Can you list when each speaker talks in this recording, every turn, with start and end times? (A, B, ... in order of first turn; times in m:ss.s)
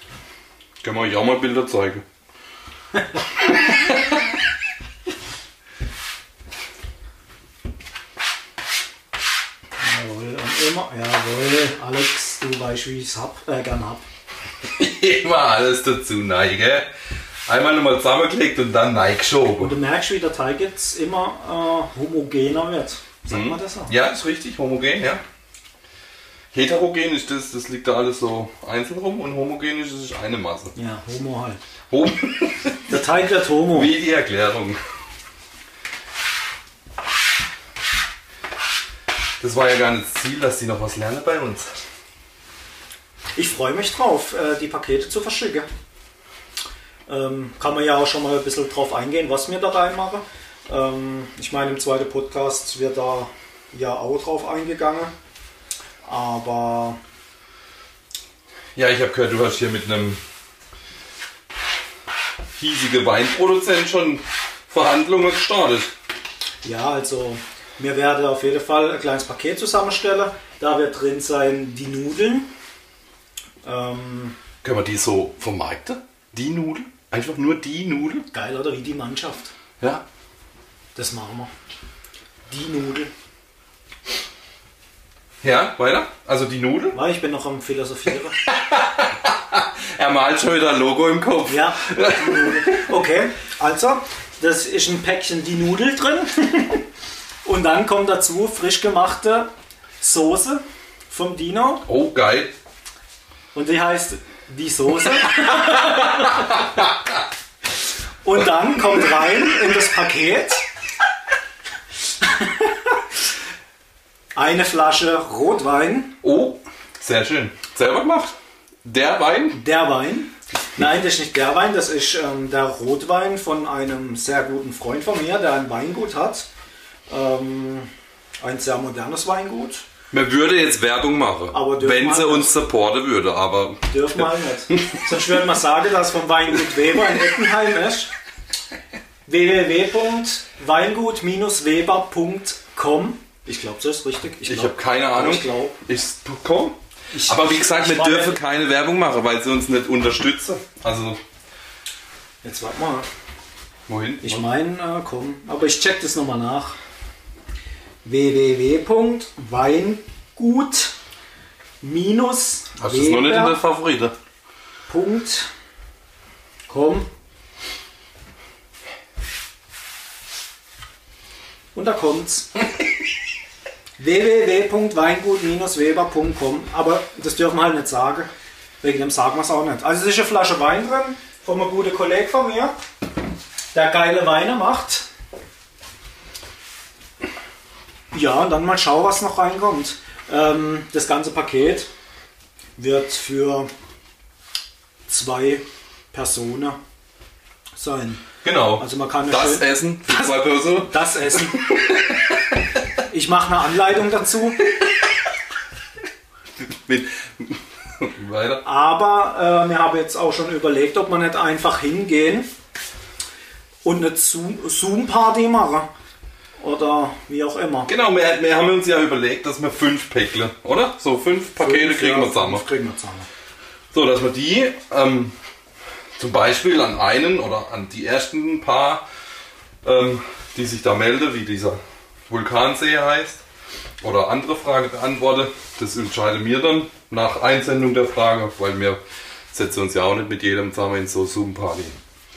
0:00.8-0:02.0 A
0:09.8-0:14.0 B
0:14.6-0:16.9 A
0:17.5-0:19.8 A
0:19.6-0:23.9 B
0:23.3-0:25.2 A
0:26.5-0:30.7 A
0:30.8-0:31.6 B
0:31.9-0:33.0 A
0:32.9-0:33.9 B
0:33.7-0:34.8 A
0:39.4-0:41.7 A
0:43.4-0:45.7 B
0:47.1-0:55.1 B
0:56.0-0:57.0 B
0:58.8-1:00.2 A
1:02.6-1:05.9 A
1:06.6-1:12.5 B
1:13.6-1:14.4 B
1:14.6-1:18.2 A
1:18.3-1:19.5 B
1:19.8-1:20.0 A
1:21.0-1:21.5 B
1:22.5-1:23.1 B
1:25.4-1:27.0 A
1:26.9-1:28.4 B
1:28.4-1:32.9 A
1:31.5-1:36.9 B
1:37.4-1:41.9 B
1:41.9-1:42.5 A
1:43.5-1:46.6 B
1:46.3-1:47.0 A
1:48.2-1:50.6 B
1:52.2-1:53.0 B
1:54.4-1:56.2 B
1:56.2-1:59.6 A
1:59.5-2:06.5 B
2:07.1-2:07.9 B
2:08.4-2:09.8 B
2:10.1-2:14.2 A
2:11.5-2:12.5 B
2:13.9-2:18.1 B
2:19.3-2:25.8 B
2:24.4-2:31.2 A
2:27.1-2:28.4 B
2:32.4-2:33.1 B
2:33.9-2:34.4 A
2:34.2-2:36.8 B
2:38.0-2:40.9 B
2:41.8-2:43.6 B
2:42.8-2:44.1 A
2:44.9-2:45.5 B
2:46.7-2:47.1 B
2:51.8-2:52.5 B
2:54.0-2:58.3 B
2:58.8-3:02.8 B
3:03.7-3:05.0 B
3:08.1-3:11.9 B
3:12.8-3:13.7 B
3:15.1-3:16.8 B
3:17.8-3:18.2 B
3:18.4-3:22.5 A
3:18.8-3:19.7 B
3:20.8-3:21.6 B
3:23.1-3:24.6 B
3:26.7-3:28.6 A
3:28.6-3:32.5 B
3:33.8-3:35.9 B
3:36.6-3:37.9 B
3:37.9-3:42.6 A
3:41.6-3:43.3 B
3:43.9-3:45.4 A
3:46.2-3:49.0 A
3:49.8-3:53.4 A
3:54.0-3:59.0 A
3:59.5-4:02.0 A